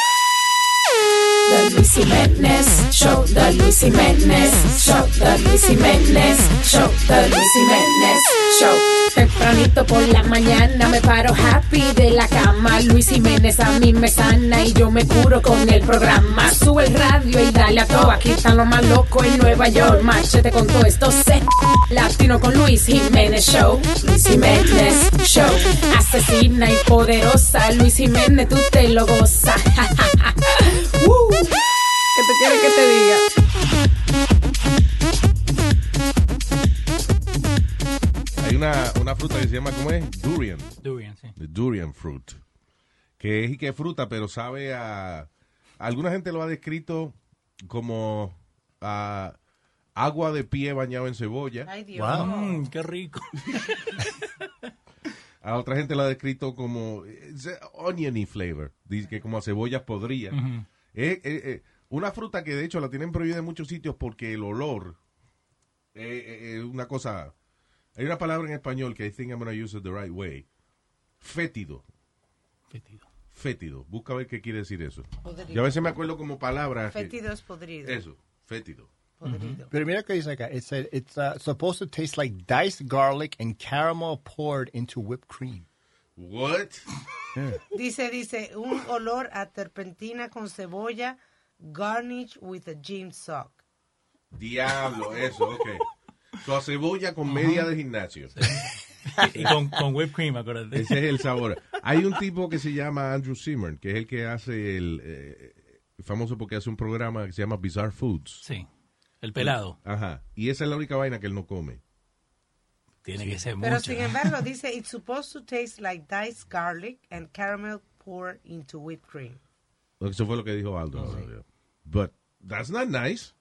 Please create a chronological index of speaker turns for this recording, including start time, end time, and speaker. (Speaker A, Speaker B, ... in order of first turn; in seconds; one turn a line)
Speaker A: 1.5-31.5
Speaker A: 32.1-33.2
Speaker B: 38.4-40.8
Speaker C: 40.8-41.3
Speaker B: 41.4-42.4
Speaker B: 43.2-45.3
Speaker B: 45.8-49.4
Speaker B: 50.0-51.7
Speaker D: 51.6-52.6
Speaker E: 51.9-52.3
Speaker C: 52.1-54.1
Speaker B: 55.4-60.4
Speaker C: 60.3-60.6
Speaker B: 60.9-65.0
Speaker B: 65.9-67.3
Speaker B: 68.0-70.5
Speaker B: 71.2-71.8
Speaker C: 72.7-73.0
Speaker B: 73.3-77.2
Speaker D: 75.2-76.0
Speaker D: 76.9-78.0
Speaker B: 77.8-78.9
Speaker D: 79.2-79.8
Speaker C: 79.2-79.6
Speaker E: 79.7-85.7
Speaker B: 86.2-86.8
Speaker D: 87.7-93.6
Speaker B: 94.3-95.8
Speaker B: 96.4-98.3
Speaker C: 97.3-97.7
Speaker C: 98.4-101.0
Speaker B: 100.7-108.4
Speaker C: 109.2-109.8
Speaker B: 109.4-111.8
Speaker C: 113.0-114.4
Speaker D: 113.6-119.4
Speaker B: 120.0-123.3